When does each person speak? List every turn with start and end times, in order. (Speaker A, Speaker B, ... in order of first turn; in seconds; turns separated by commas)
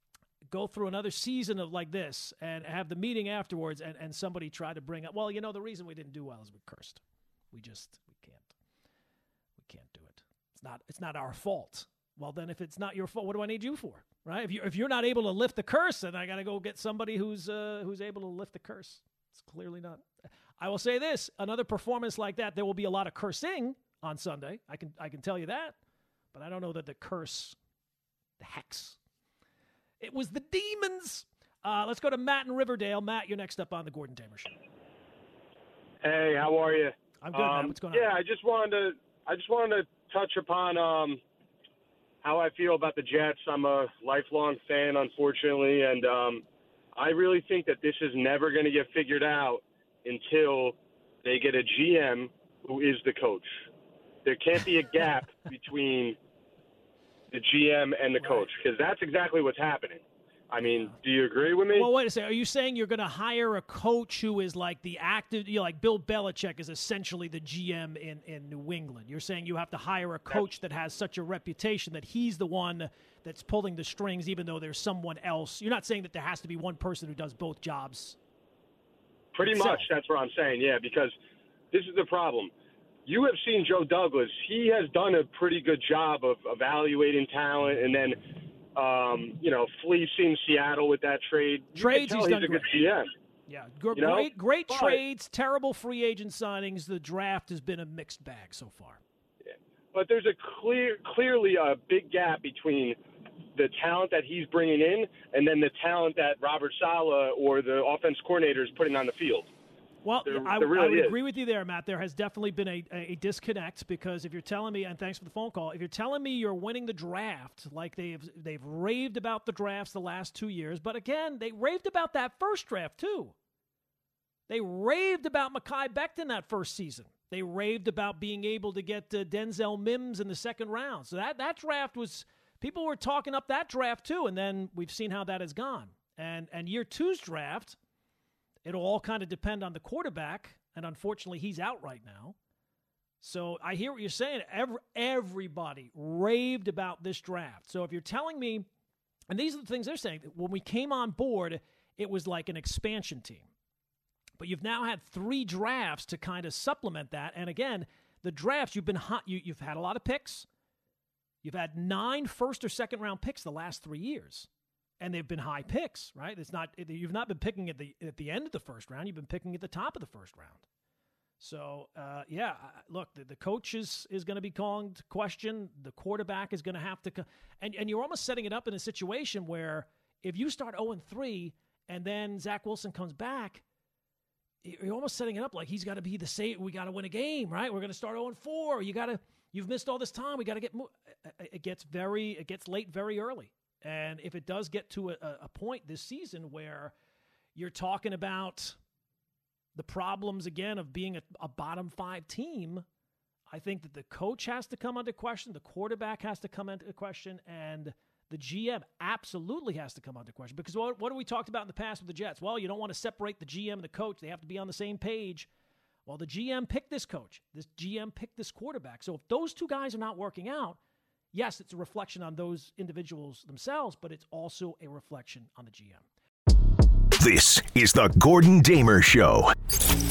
Speaker A: 0.5-7.0, Speaker A: 7.5-8.5, Speaker A: 9.6-20.1, Speaker A: 20.6-25.8, Speaker A: 26.3-27.6, Speaker A: 28.4-29.0, Speaker A: 30.0-34.5, Speaker B: 36.0-41.2, Speaker A: 37.2-38.1, Speaker B: 42.2-46.4, Speaker B: 46.9-53.6, Speaker B: 54.2-56.2, Speaker B: 57.3-61.9, Speaker A: 58.2-58.5, Speaker A: 60.6-61.0, Speaker A: 61.7-78.2, Speaker B: 79.3-81.1, Speaker A: 79.4-79.9, Speaker B: 81.7-82.5, Speaker B: 83.0-93.1, Speaker A: 91.7-92.8, Speaker A: 93.5-99.0, Speaker B: 93.9-95.0, Speaker B: 99.4-103.0, Speaker B: 103.5-109.5, Speaker A: 110.0-123.3, Speaker B: 110.2-111.2, Speaker A: 124.5-137.8, Speaker A: 138.6-142.3, Speaker A: 143.2-148.7, Speaker A: 149.3-153.5, Speaker A: 154.4-160.5, Speaker A: 161.4-164.5, Speaker A: 165.0-170.6, Speaker A: 171.4-183.6, Speaker A: 184.6-196.9, Speaker A: 197.5-198.8, Speaker A: 199.7-202.8, Speaker A: 203.5-215.5, Speaker A: 216.1-220.8, Speaker A: 221.3-226.0, Speaker C: 227.2-229.5